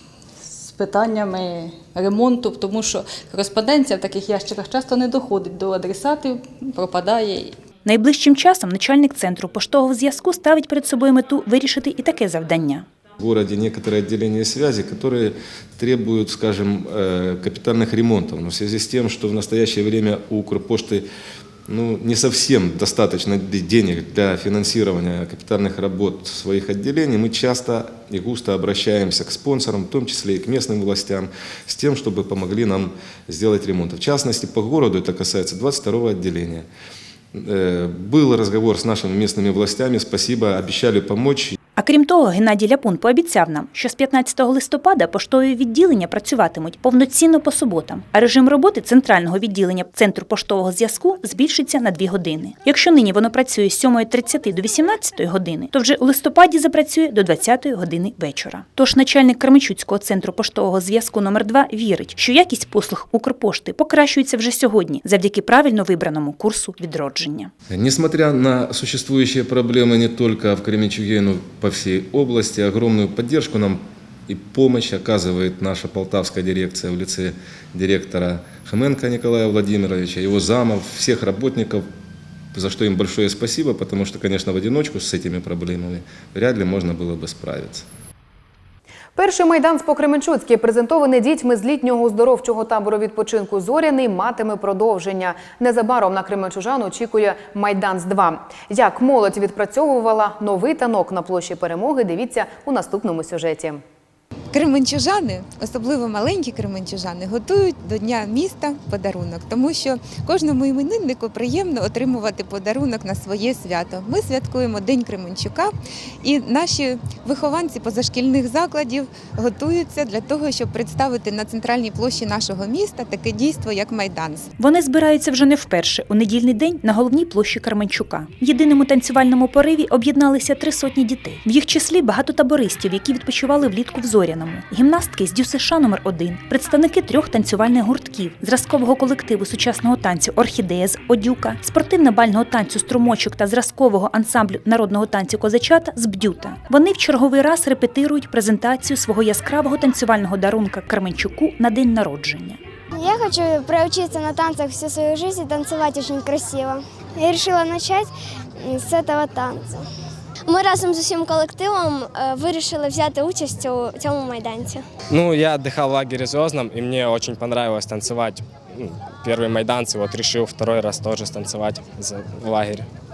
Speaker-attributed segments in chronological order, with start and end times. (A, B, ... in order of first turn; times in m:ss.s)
0:00.5-0:07.6 A
0:07.8-0:12.9 B
0:13.2-0:21.1 C
0:21.7-0:36.7 C
0:37.3-0:41.6 C
0:41.8-1:07.5 B
1:07.7-1:21.8 C
1:22.5-1:27.8 C
1:29.2-1:43.8 D
1:44.5-2:04.5 E
2:04.6-2:32.6 B
2:32.9-2:39.8 F
2:40.5-2:44.8 F
2:45.1-2:52.9 G